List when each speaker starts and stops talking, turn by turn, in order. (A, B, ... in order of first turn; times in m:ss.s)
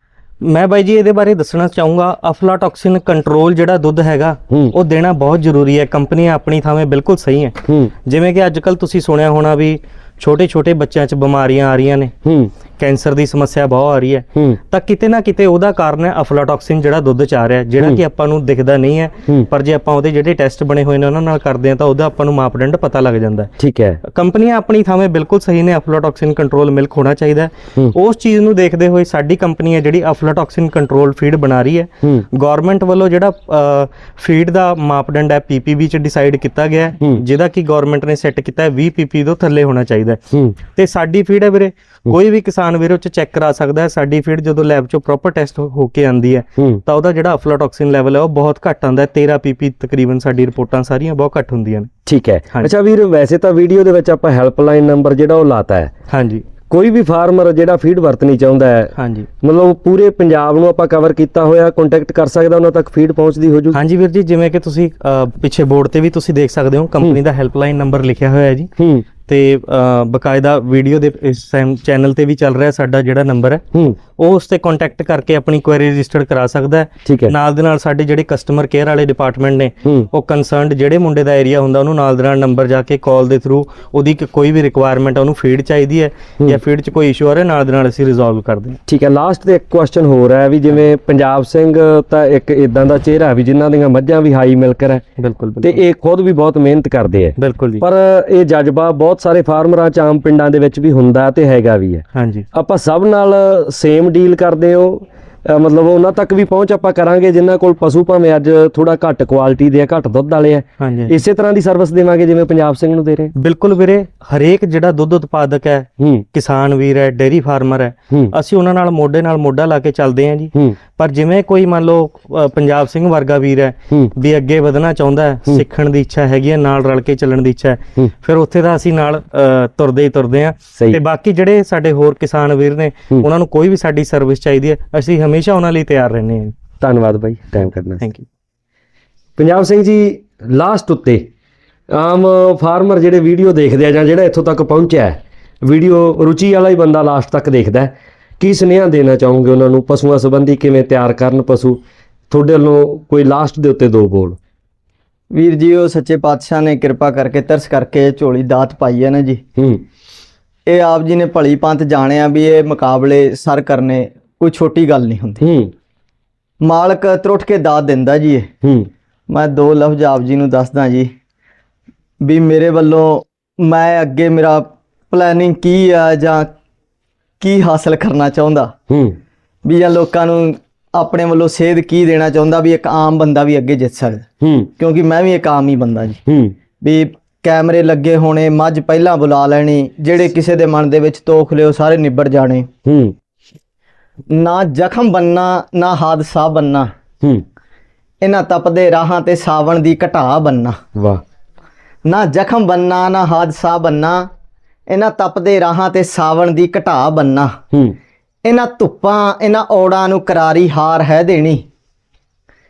0:00.4-0:12.1 A
0:07.7-0:07.9 B
0:12.2-0:12.5 B
0:12.8-0:23.5 A
0:23.6-0:24.0 B
0:24.0-0:51.9 A
0:52.1-0:55.9 B
0:56.1-0:56.4 A
0:56.7-1:03.8 B
0:59.0-0:59.3 A
1:03.7-1:08.7 A
1:08.8-1:09.0 B
1:09.3-1:28.8 A
1:17.0-1:17.3 B
1:28.9-1:35.0 B
1:35.2-1:35.8 A
1:35.6-1:53.3 B
1:37.4-1:37.8 A
1:42.1-1:42.5 A
1:50.8-1:51.2 A
1:53.4-2:16.6 A
2:16.8-2:18.0 B
2:17.7-2:18.2 A
2:19.4-2:21.3 B
2:21.9-2:34.4 B
2:35.3-2:39.4 C
2:39.6-2:39.8 B
2:40.7-2:45.4 C
2:45.4-2:45.7 B
2:46.6-2:48.5 C
2:48.6-2:48.9 B
2:49.3-2:51.1 C
2:52.2-2:56.5 C
2:57.4-2:58.8 C
2:58.9-2:59.2 B
2:59.6-3:04.2 C
3:04.4-3:04.7 B
3:04.8-3:06.2 C
3:06.3-3:06.6 B
3:06.8-3:12.7 C
3:12.8-3:13.2 B
3:14.3-3:16.9 C
3:18.2-3:20.8 C
3:21.0-3:21.2 B
3:22.1-3:24.3 C
3:24.9-3:27.6 C
3:28.4-3:31.7 C